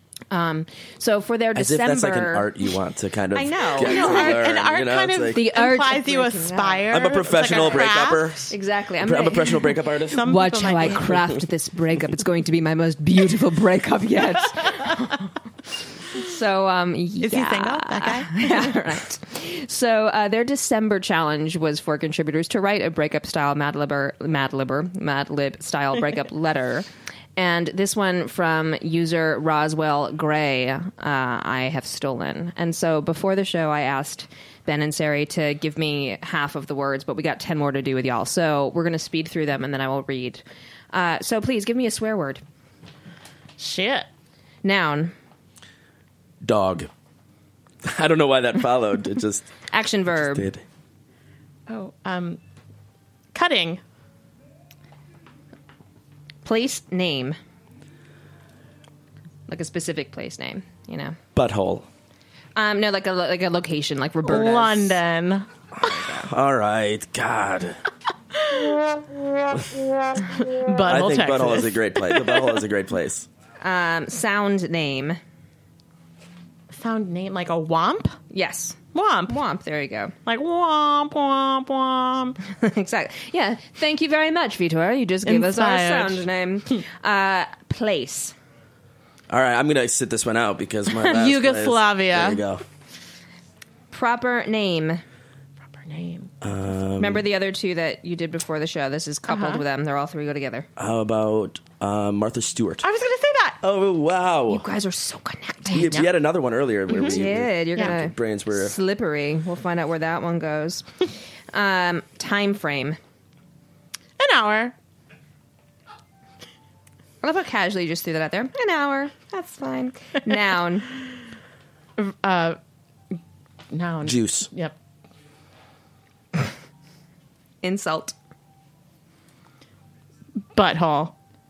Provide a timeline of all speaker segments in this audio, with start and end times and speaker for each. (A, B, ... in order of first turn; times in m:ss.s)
0:00.3-0:02.5 A
0:01.6-0:05.4 B
0:03.4-0:08.4 C
0:03.7-0:04.3 A
0:05.3-0:06.8 A
0:06.9-0:10.3 B
0:08.5-0:15.3 A
0:10.1-0:11.1 C
0:10.8-0:11.2 B
0:16.0-0:42.4 A
0:17.2-0:18.8 C
0:43.6-0:44.1 C
0:44.6-0:45.1 A
0:46.4-0:46.9 B
0:47.8-0:49.5 B
0:49.7-0:50.5 A
0:50.2-0:50.6 B
0:51.7-0:52.4 C
0:53.3-0:53.8 C
0:56.4-0:57.4 A
0:59.5-1:01.2 A
1:01.4-1:01.9 B
1:02.6-1:05.0 A
1:04.3-1:06.3 C
1:06.2-1:07.8 B
1:08.3-1:08.9 C
1:10.3-1:12.5 C
1:10.9-1:13.3 B
1:13.6-1:15.2 A
1:16.7-1:18.2 C
1:18.3-1:18.8 A
1:18.9-1:19.4 C
1:19.3-1:20.1 A
1:20.3-1:22.4 C
1:22.5-1:28.4 A
1:25.3-1:26.2 C
1:29.3-1:32.6 B
1:31.0-1:32.4 C
1:33.9-1:35.0 A
1:35.8-1:36.3 C
1:36.4-1:37.2 B
1:37.0-1:40.7 A
1:39.3-1:39.6 C
1:40.8-1:42.9 B
1:42.8-1:43.6 C
1:43.6-1:44.7 B
1:44.5-1:45.9 A
1:45.7-1:48.8 B
1:45.8-1:46.1 C
1:46.9-1:47.2 C
1:47.1-1:53.0 A
1:54.2-1:54.7 C
1:57.2-2:01.0 A
2:02.0-2:02.6 C
2:03.7-2:04.7 C
2:04.0-2:04.5 B
2:07.6-2:08.2 A
2:10.6-2:11.1 C